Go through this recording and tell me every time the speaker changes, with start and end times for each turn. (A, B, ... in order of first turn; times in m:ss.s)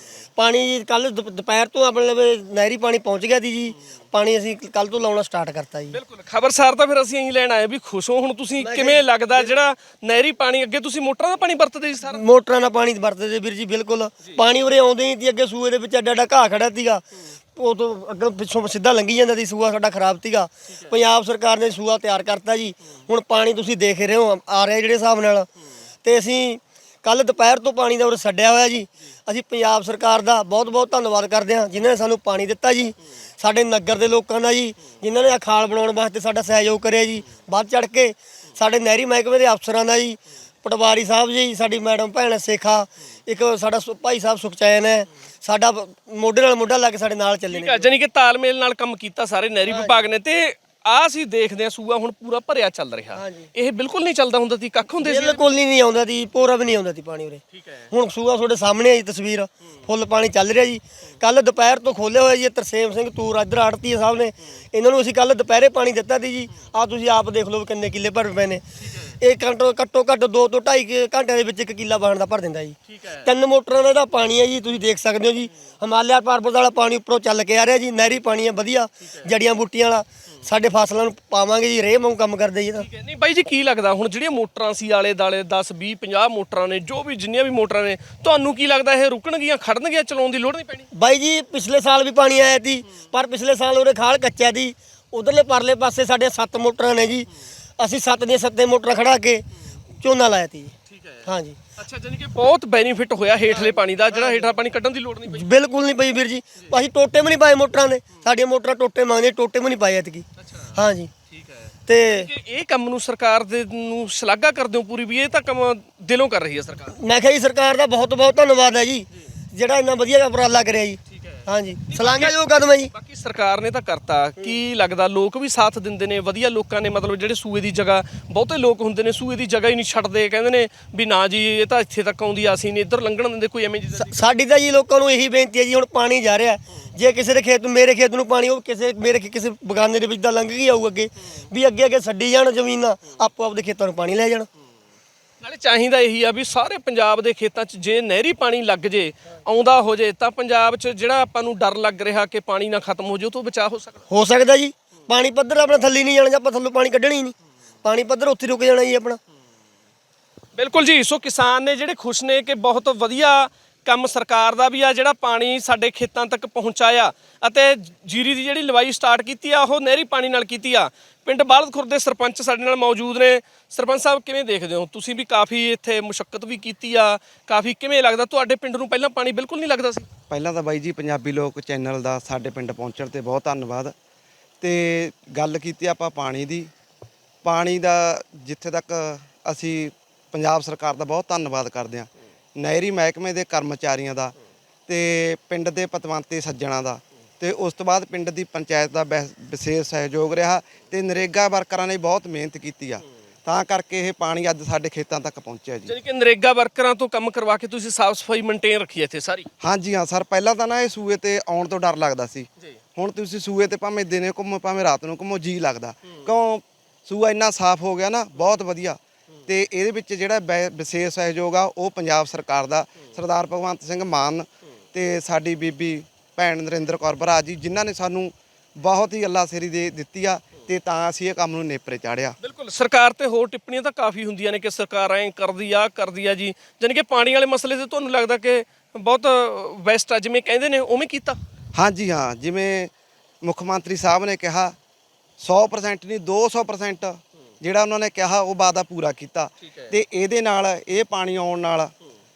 0:00.4-0:06.0 A
0:05.9-0:12.2 B
0:08.6-0:09.5 A
0:12.0-0:25.5 A
0:20.7-0:21.0 B
0:26.0-0:47.9 A
0:47.5-0:55.4 B
0:49.6-0:50.0 A
0:53.1-0:53.5 A
0:55.0-1:08.6 A
0:57.5-0:57.8 B
1:08.8-1:09.1 B
1:09.2-1:22.8 A
1:12.8-1:13.3 B
1:18.0-1:18.2 B
1:19.0-1:19.3 B
1:22.7-1:30.9 B
1:30.9-1:39.5 A
1:40.0-1:40.7 A
1:40.9-1:45.5 B
1:41.2-1:41.6 A
1:43.5-1:44.6 A
1:45.2-1:51.1 A
1:50.4-1:50.7 B
1:51.3-1:57.0 B
1:51.9-1:52.3 A
1:56.9-2:02.9 A
2:01.1-2:14.3 B
2:14.0-2:24.5 A
2:25.4-2:34.0 B
2:34.1-2:39.2 A
2:40.5-3:00.1 B
3:00.3-3:03.9 C
3:04.6-3:06.7 C
3:07.4-3:14.3 C
3:14.9-3:25.9 C
3:25.8-3:29.5 B
3:29.6-3:52.4 C
3:52.4-4:01.4 B
4:01.7-4:02.9 C
4:03.4-4:04.8 C
4:05.4-4:11.9 C
4:09.6-4:09.9 B